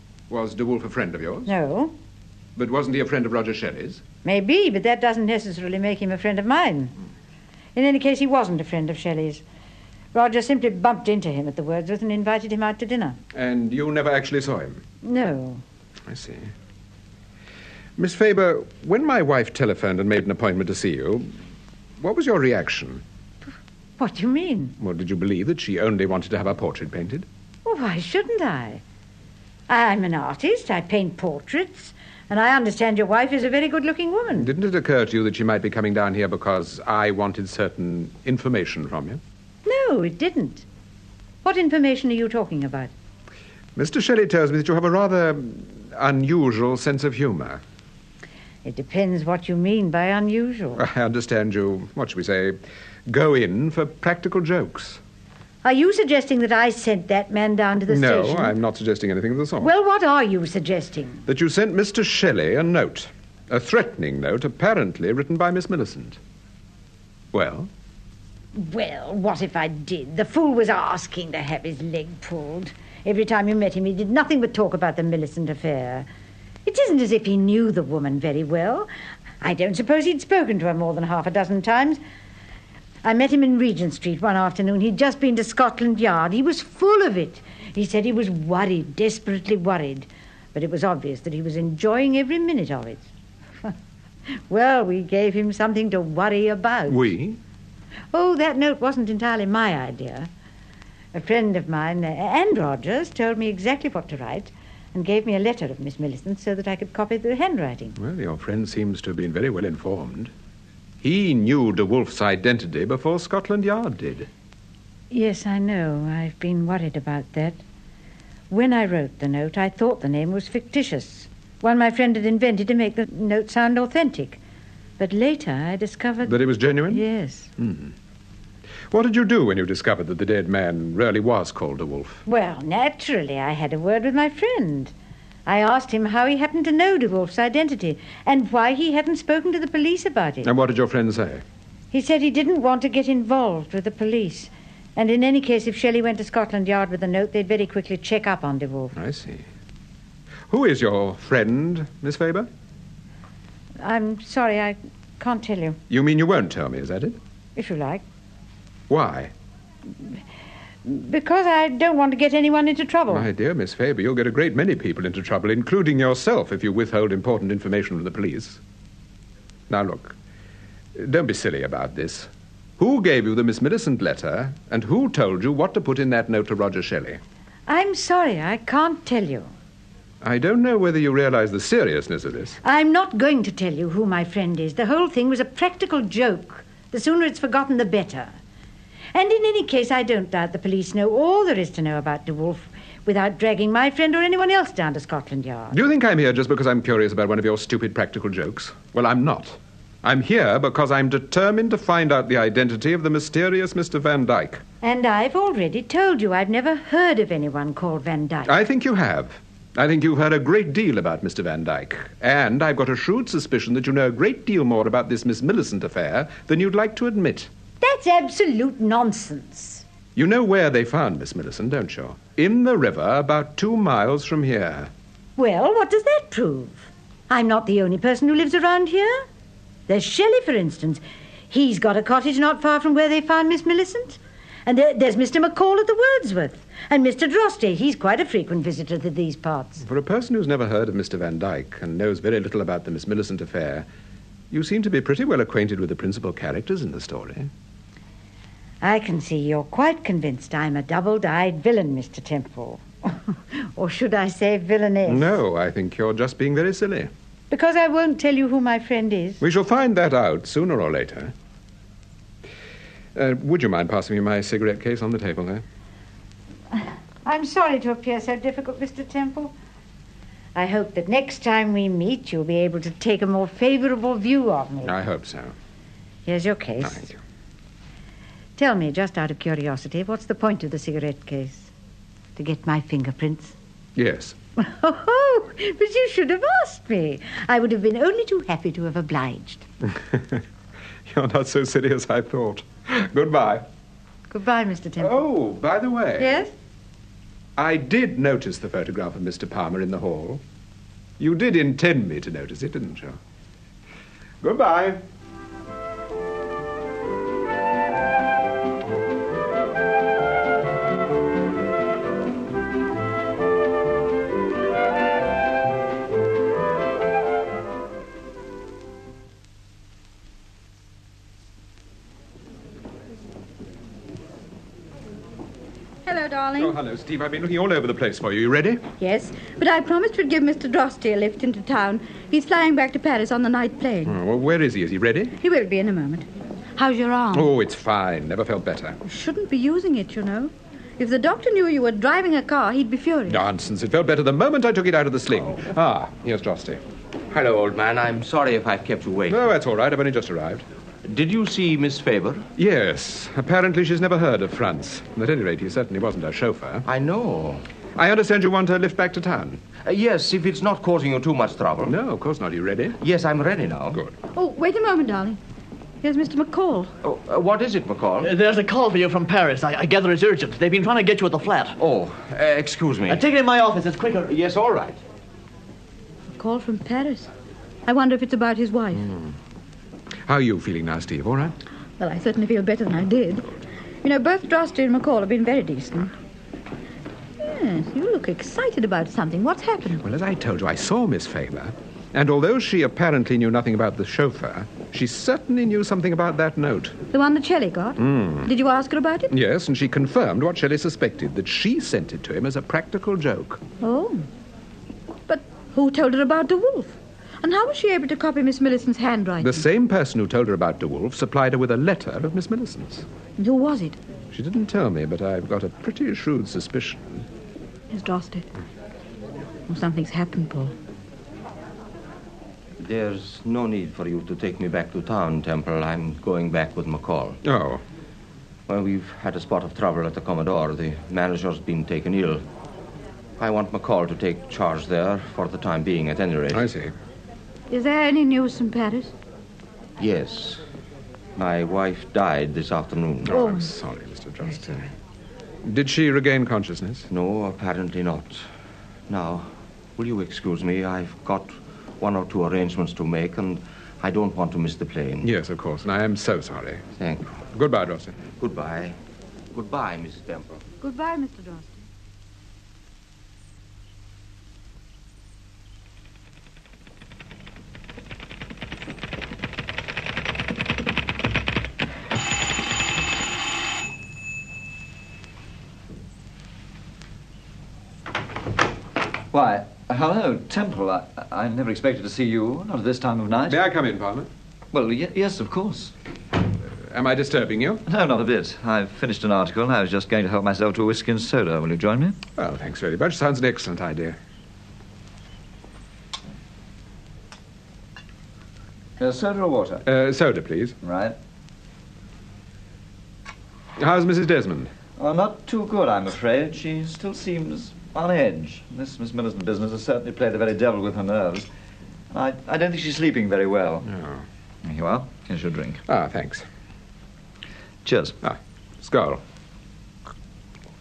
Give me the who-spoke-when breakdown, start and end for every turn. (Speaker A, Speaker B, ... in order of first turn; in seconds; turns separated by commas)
Speaker A: 0.3-1.5, Speaker B: 1.4-1.9, Speaker A: 2.6-4.0, Speaker B: 4.2-6.9, Speaker B: 7.8-9.4, Speaker B: 10.1-13.2, Speaker A: 13.3-14.8, Speaker B: 15.0-15.6, Speaker A: 16.1-16.5, Speaker A: 18.0-21.4, Speaker A: 22.0-23.0, Speaker B: 24.0-24.8, Speaker A: 24.8-27.3, Speaker B: 27.6-28.8, Speaker B: 29.7-34.5, Speaker A: 34.4-39.2, Speaker B: 39.6-40.7, Speaker B: 41.4-42.9, Speaker A: 43.8-47.6, Speaker B: 48.6-50.8, Speaker A: 50.8-55.0, Speaker B: 55.6-58.5, Speaker A: 57.9-59.7, Speaker B: 59.6-61.3, Speaker A: 61.3-66.2, Speaker A: 67.3-67.7, Speaker B: 68.5-76.1, Speaker B: 76.6-78.9, Speaker B: 79.4-82.0, Speaker B: 83.0-93.1, Speaker B: 94.3-97.1, Speaker A: 96.9-97.4, Speaker B: 98.1-100.3, Speaker B: 101.1-108.0, Speaker A: 108.0-110.3, Speaker A: 111.0-114.3, Speaker B: 115.1-117.6, Speaker B: 118.5-124.4, Speaker B: 125.0-127.5, Speaker A: 126.2-127.0, Speaker A: 127.6-127.9, Speaker A: 128.9-132.2, Speaker B: 132.2-134.9, Speaker B: 135.5-140.5, Speaker A: 140.4-141.4, Speaker B: 141.9-148.9, Speaker A: 148.9-149.5, Speaker A: 150.5-152.5, Speaker B: 153.8-155.8, Speaker A: 155.9-157.2, Speaker B: 157.6-158.0, Speaker A: 158.9-159.3, Speaker B: 160.8-163.3, Speaker A: 163.1-168.6, Speaker A: 169.7-170.2, Speaker A: 170.9-177.2, Speaker B: 177.7-179.5, Speaker A: 180.2-182.6, Speaker B: 182.6-188.3, Speaker B: 189.1-195.8, Speaker A: 195.7-204.6, Speaker B: 204.8-208.5, Speaker A: 208.5-217.5, Speaker B: 217.8-219.8, Speaker A: 220.2-224.9, Speaker B: 225.4-229.2, Speaker B: 229.9-239.8, Speaker A: 239.8-243.9, Speaker A: 244.5-247.5, Speaker B: 248.8-255.4, Speaker A: 255.1-257.1, Speaker B: 257.5-259.4, Speaker A: 259.4-261.3, Speaker A: 263.1-265.6, Speaker B: 267.2-269.5, Speaker B: 270.5-274.9, Speaker A: 274.8-275.5, Speaker B: 276.2-277.1, Speaker A: 276.8-277.2, Speaker B: 278.6-281.7, Speaker B: 282.4-283.6, Speaker A: 284.0-284.4, Speaker B: 284.6-289.6, Speaker A: 290.0-290.4, Speaker A: 291.1-293.6, Speaker B: 294.3-295.2, Speaker A: 295.0-296.4, Speaker B: 296.2-296.5, Speaker A: 297.6-300.4, Speaker A: 301.2-303.2, Speaker A: 304.4-305.0, Speaker C: 326.1-326.8, Speaker A: 326.6-328.8, Speaker C: 329.0-334.2, Speaker A: 334.0-335.4, Speaker C: 335.4-337.5, Speaker A: 337.3-339.0, Speaker C: 339.0-343.4, Speaker A: 343.3-346.8, Speaker D: 347.3-349.4, Speaker A: 349.3-350.6, Speaker D: 351.0-352.5, Speaker A: 352.6-356.9, Speaker D: 356.9-357.6, Speaker A: 358.0-359.6, Speaker D: 359.8-362.0, Speaker A: 361.8-363.0, Speaker D: 363.0-364.0, Speaker C: 364.3-365.4, Speaker C: 366.0-366.9, Speaker D: 367.0-368.3, Speaker E: 368.2-371.8, Speaker D: 371.8-373.3, Speaker E: 373.1-374.3, Speaker D: 374.2-375.0, Speaker C: 376.4-377.3, Speaker C: 377.9-379.1, Speaker A: 380.2-381.6, Speaker C: 382.0-386.1, Speaker C: 387.4-390.0, Speaker A: 390.0-397.0, Speaker C: 397.1-399.3, Speaker A: 398.0-398.5, Speaker A: 399.3-403.6, Speaker C: 403.8-404.3, Speaker C: 405.3-409.6, Speaker A: 409.4-413.1, Speaker C: 413.4-414.0, Speaker A: 414.3-417.3, Speaker C: 417.9-418.5, Speaker C: 419.7-420.7, Speaker D: 422.8-427.4, Speaker A: 427.4-427.8, Speaker D: 428.7-432.4, Speaker D: 433.4-436.7, Speaker A: 436.5-436.9, Speaker C: 437.7-439.1, Speaker D: 440.0-440.6, Speaker D: 441.4-443.4, Speaker A: 443.2-444.9, Speaker C: 443.3-443.7, Speaker A: 445.6-447.1, Speaker D: 447.1-448.4, Speaker D: 449.1-455.3, Speaker A: 455.2-456.8, Speaker D: 457.0-457.4, Speaker A: 457.5-458.2, Speaker D: 458.4-459.0, Speaker D: 459.5-460.6, Speaker C: 460.8-461.8, Speaker F: 479.3-483.6, Speaker A: 483.5-484.3, Speaker F: 484.7-485.9, Speaker A: 486.9-487.8, Speaker F: 487.9-492.2, Speaker A: 492.4-494.2, Speaker F: 499.0-499.8, Speaker A: 499.9-500.8, Speaker F: 500.8-501.1, Speaker A: 503.8-504.7, Speaker F: 505.0-511.5, Speaker F: 512.1-513.9, Speaker A: 513.9-514.2, Speaker F: 514.6-515.8, Speaker A: 515.9-516.5, Speaker F: 517.9-518.1, Speaker A: 518.2-519.2